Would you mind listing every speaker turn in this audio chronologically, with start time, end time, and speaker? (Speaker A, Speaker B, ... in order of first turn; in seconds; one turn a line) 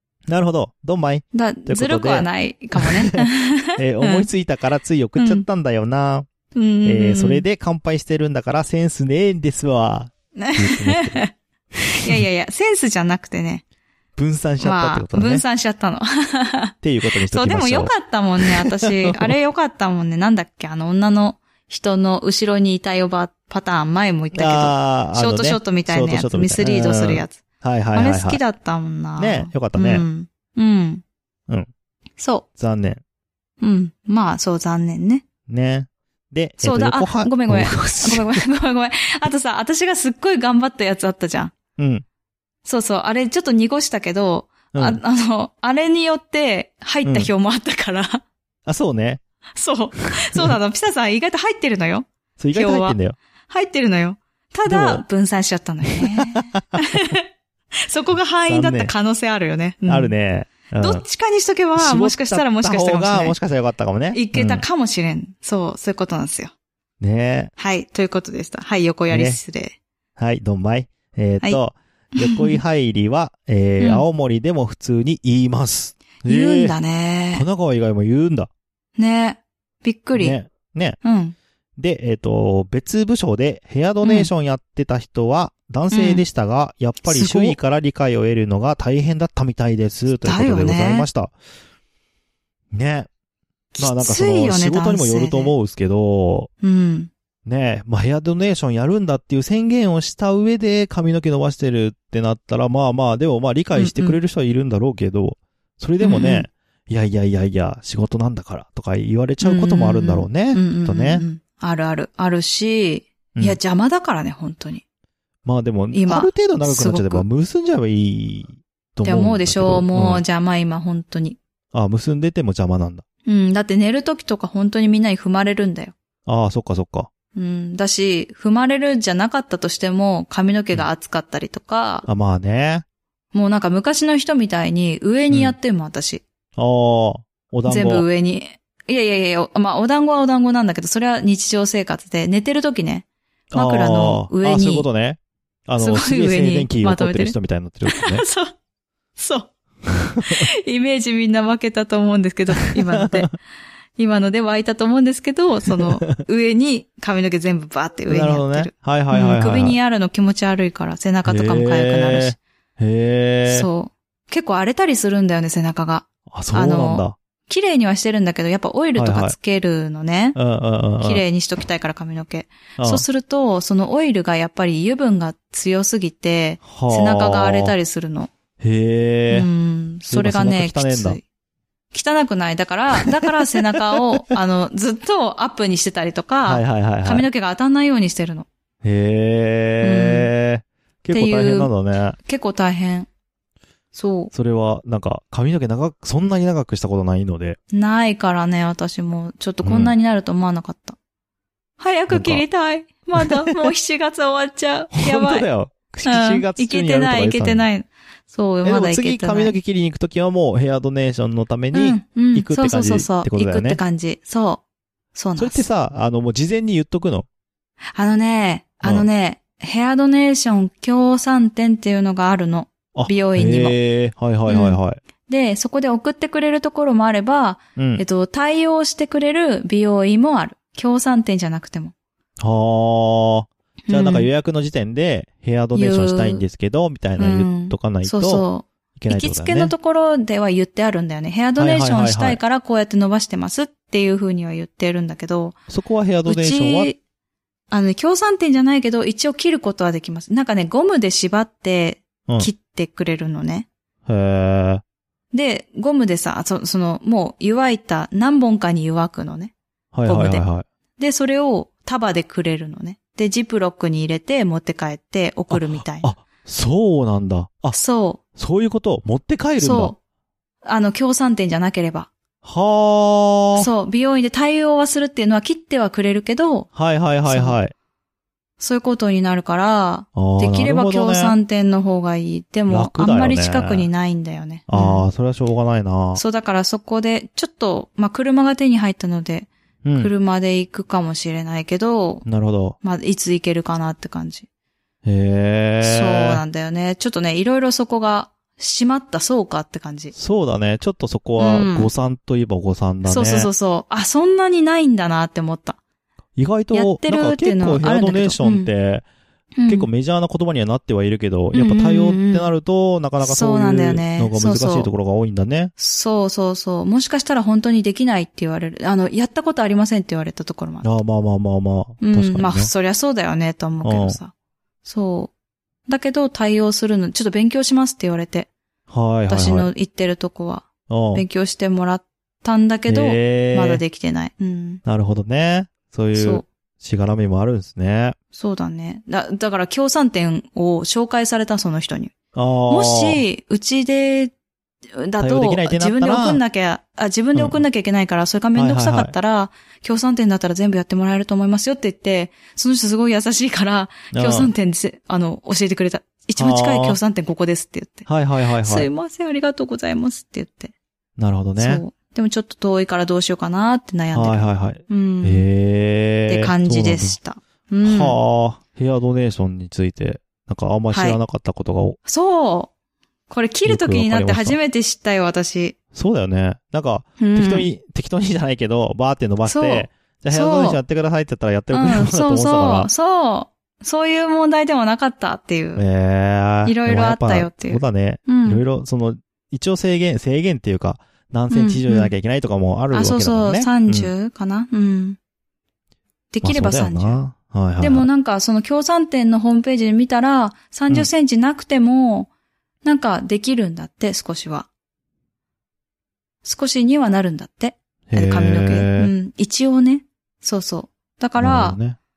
Speaker A: 0.3-3.2
Speaker B: 1.3-4.3
Speaker A: 3.8-6.3
Speaker B: 5.2-5.4
Speaker B: 6.5-7.4
Speaker A: 6.8-11.2
Speaker B: 10.3-11.3
Speaker B: 11.9-13.6
Speaker A: 12.0-12.2
Speaker A: 14.2-15.4
Speaker B: 14.6-16.7
Speaker A: 16.8-19.3
Speaker B: 17.3-27.4
Speaker A: 24.3-28.4
Speaker B: 27.9-31.0
Speaker A: 29.2-30.1
Speaker B: 32.2-32.5
Speaker A: 32.6-33.0
Speaker B: 33.6-35.2
Speaker A: 35.5-38.4
Speaker B: 36.6-41.5
Speaker A: 41.8-42.0
Speaker B: 42.6-48.2
Speaker A: 44.7-45.0
Speaker A: 47.0-47.3
Speaker A: 48.6-49.2
Speaker B: 49.5-53.0
Speaker A: 52.4-53.2
Speaker B: 53.5-57.2
Speaker A: 54.6-55.0
Speaker A: 56.0-56.8
Speaker B: 57.8-60.1
Speaker A: 58.5-58.9
Speaker A: 59.9-61.0
Speaker B: 60.8-63.4
Speaker A: 61.8-64.6
Speaker B: 64.1-66.5
Speaker A: 67.0-67.5
Speaker B: 67.6-69.8
Speaker A: 69.1-69.4
Speaker A: 70.2-76.8
Speaker B: 72.2-72.6
Speaker B: 73.8-74.0
Speaker B: 76.2-77.4
Speaker A: 77.3-78.5
Speaker B: 79.0-80.4
Speaker A: 80.2-81.0
Speaker B: 81.0-81.3
Speaker A: 81.8-91.3
Speaker B: 84.0-84.3
Speaker B: 85.9-86.2
Speaker B: 87.0-87.6
Speaker B: 90.1-91.1
Speaker A: 92.7-93.1
Speaker B: 93.7-95.5
Speaker A: 93.8-96.5
Speaker B: 96.6-97.1
Speaker A: 97.5-111.2
Speaker B: 103.8-104.2
Speaker B: 106.0-106.5
Speaker B: 109.4-114.8
Speaker A: 115.4-120.2
Speaker B: 115.9-117.2
Speaker B: 119.0-121.4
Speaker A: 121.7-123.0
Speaker B: 123.2-125.9
Speaker A: 126.2-127.1
Speaker B: 127.3-132.1
Speaker A: 132.1-132.8
Speaker B: 133.3-136.2
Speaker A: 136.6-138.1
Speaker B: 137.7-144.9
Speaker A: 143.5-148.2
Speaker B: 145.8-148.5
Speaker B: 149.2-149.5
Speaker A: 150.0-150.4
Speaker B: 150.2-153.3
Speaker A: 152.8-153.3
Speaker B: 154.0-162.4
Speaker A: 155.8-156.1
Speaker A: 158.1-159.8
Speaker A: 161.2-163.7
Speaker B: 163.4-170.4
Speaker A: 166.3-167.2
Speaker A: 169.0-169.3
Speaker A: 170.3-171.2
Speaker B: 171.0-178.3
Speaker A: 172.8-173.0
Speaker A: 176.6-177.8
Speaker A: 178.6-179.5
Speaker B: 179.3-181.2
Speaker A: 180.1-181.2
Speaker B: 181.9-188.5
Speaker A: 182.9-184.2
Speaker A: 186.4-187.3
Speaker A: 188.8-192.2
Speaker B: 189.8-190.3
Speaker B: 191.1-191.7
Speaker B: 192.2-193.1
Speaker B: 193.9-194.3
Speaker A: 194.3-197.6
Speaker B: 197.7-201.0
Speaker A: 199.6-199.9
Speaker B: 201.8-205.4
Speaker A: 202.1-202.4
Speaker A: 203.2-203.7
Speaker A: 204.9-207.7
Speaker B: 206.0-209.6
Speaker A: 208.6-213.8
Speaker B: 211.7-214.6
Speaker B: 215.1-215.6
Speaker A: 215.4-217.3
Speaker B: 217.9-223.8
Speaker A: 222.9-225.0
Speaker B: 224.5-231.9
Speaker A: 227.8-228.0
Speaker A: 232.4-238.4
Speaker B: 233.9-234.3
Speaker B: 235.7-236.4
Speaker B: 237.2-245.6
Speaker A: 239.0-239.7
Speaker A: 241.6-242.4
Speaker A: 245.7-246.9
Speaker B: 246.2-247.0
Speaker B: 247.7-253.7
Speaker A: 254.1-254.8
Speaker B: 255.3-259.5
Speaker A: 259.9-260.6
Speaker B: 260.0-260.4
Speaker B: 261.0-266.1
Speaker A: 265.5-267.8
Speaker B: 267.7-268.2
Speaker A: 268.3-269.9
Speaker B: 269.6-269.9
Speaker B: 270.6-272.1
Speaker A: 272.4-273.7
Speaker B: 273.5-276.7
Speaker A: 276.7-277.7
Speaker B: 277.2-277.6
Speaker B: 278.6-285.0
Speaker A: 280.1-281.4
Speaker A: 282.7-283.9
Speaker A: 284.7-286.2
Speaker B: 286.1-292.2
Speaker A: 289.8-290.1
Speaker A: 292.2-292.8
Speaker B: 292.8-294.5
Speaker A: 295.0-296.4
Speaker B: 295.8-300.1
Speaker A: 300.1-303.5
Speaker B: 301.4-301.9
Speaker B: 303.1-305.8
Speaker A: 306.4-309.0
Speaker B: 306.7-308.7
Speaker B: 309.6-309.9
Speaker A: 309.7-315.7
Speaker B: 311.5-312.5
Speaker B: 313.2-314.9
Speaker B: 315.8-320.9
Speaker A: 320.8-322.7
Speaker B: 322.0-324.3
Speaker A: 323.8-324.2
Speaker B: 324.8-325.3
Speaker B: 325.9-328.5
Speaker A: 328.9-329.7
Speaker B: 329.3-334.8
Speaker A: 330.9-331.2
Speaker A: 332.9-333.8
Speaker A: 334.8-338.1
Speaker B: 336.1-336.4
Speaker B: 338.3-342.1
Speaker A: 342.3-343.2
Speaker B: 342.7-344.3
Speaker B: 345.0-358.1
Speaker A: 345.2-346.4
Speaker A: 347.3-347.6
Speaker A: 348.5-349.1
Speaker A: 354.1-354.5
Speaker A: 356.4-357.0
Speaker A: 358.1-358.9
Speaker B: 358.6-360.7
Speaker A: 361.2-361.8
Speaker B: 361.6-365.4
Speaker A: 364.1-367.2
Speaker B: 366.3-368.2
Speaker A: 367.8-372.0
Speaker B: 370.9-371.2
Speaker B: 372.0-372.7
Speaker B: 373.3-375.7
Speaker A: 373.6-374.6
Speaker A: 375.9-382.9
Speaker B: 377.2-377.7
Speaker B: 379.4-380.8
Speaker B: 381.7-385.8
Speaker A: 385.8-394.1
Speaker B: 386.6-388.6
Speaker B: 391.5-392.1
Speaker B: 392.9-395.2
Speaker B: 396.3-397.2
Speaker A: 396.4-398.1
Speaker B: 397.8-402.3
Speaker B: 402.8-404.7
Speaker B: 406.4-411.8
Speaker A: 408.1-409.1
Speaker A: 411.4-412.0